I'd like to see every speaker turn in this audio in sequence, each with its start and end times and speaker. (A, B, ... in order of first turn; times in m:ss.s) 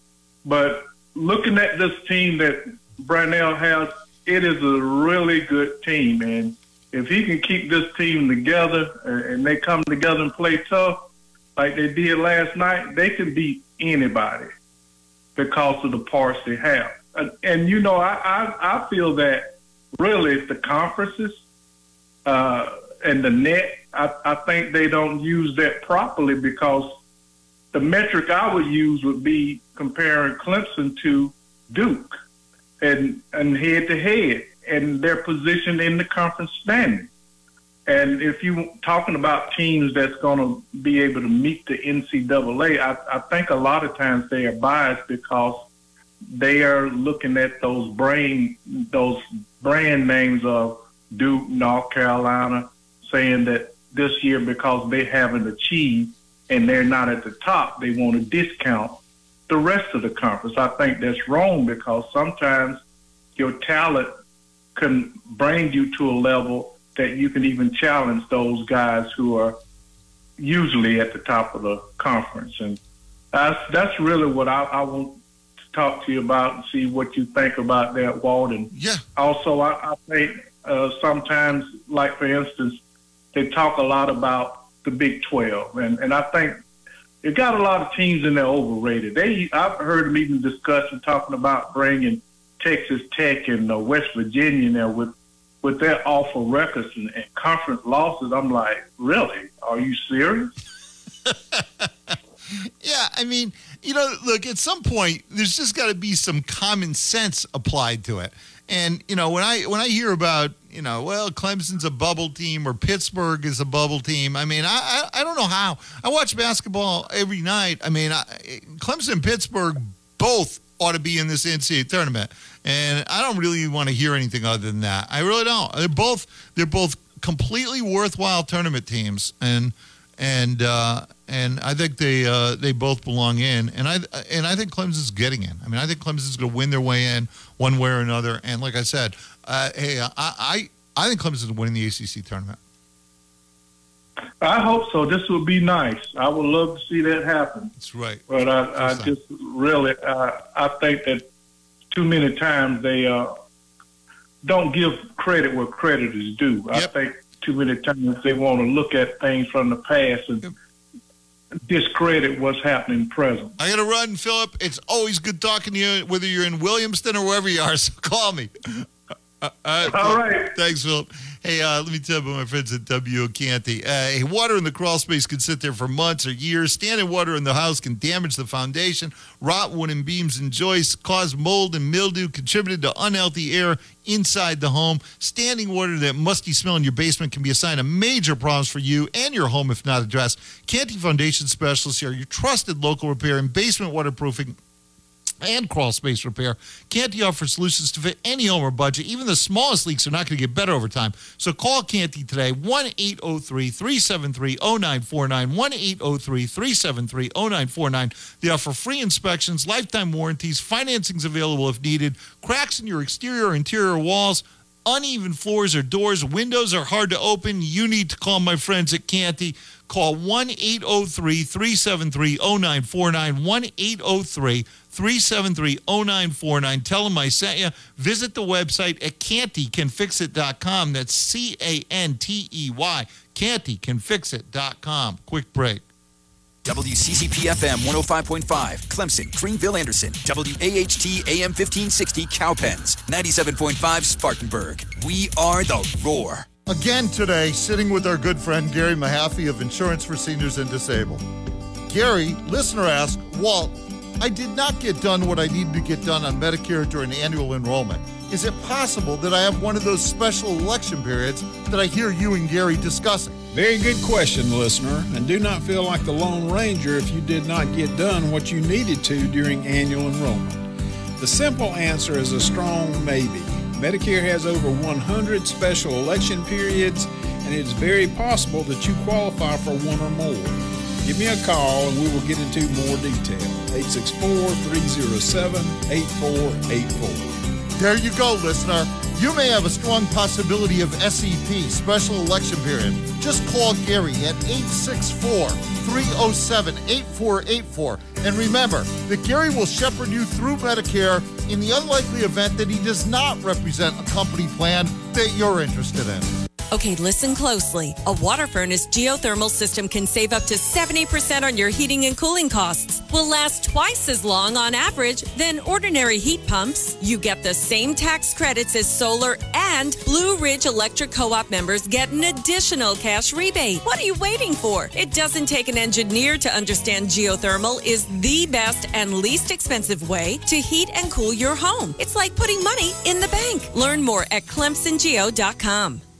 0:00.4-0:11.0 A
0:11.6-0:14.5 A
0:15.4-0:21.4 A
0:22.3-0:27.0 A
0:27.7-0:32.2 A
0:32.8-0:37.1 A
0:37.9-0:45.7 A
0:46.3-0:59.0 A
0:59.5-1:02.8 A
1:03.4-1:04.2 A
1:04.8-1:09.6 A
1:10.4-1:12.8 A
1:13.3-1:15.2 A
1:15.7-1:22.8 A
1:18.7-1:19.0 B
1:23.3-1:26.6 A
1:27.2-1:40.5 A
1:41.3-1:42.1 B
1:42.8-2:22.6 B
2:24.4-2:27.7 A
2:27.8-2:29.2 B
2:28.3-2:31.3 A
2:31.9-2:33.3 A
2:34.4-2:40.4 A
2:41.7-2:43.6 A
2:43.6-2:48.8 B
2:49.4-3:14.6 B
2:49.9-2:50.5 A
3:15.4-3:55.8 B
3:56.6-4:06.5 C
4:06.7-4:11.2 B
4:11.9-4:23.4 B
4:23.5-4:47.3 D
4:47.8-5:06.3 B
5:06.7-5:36.0 E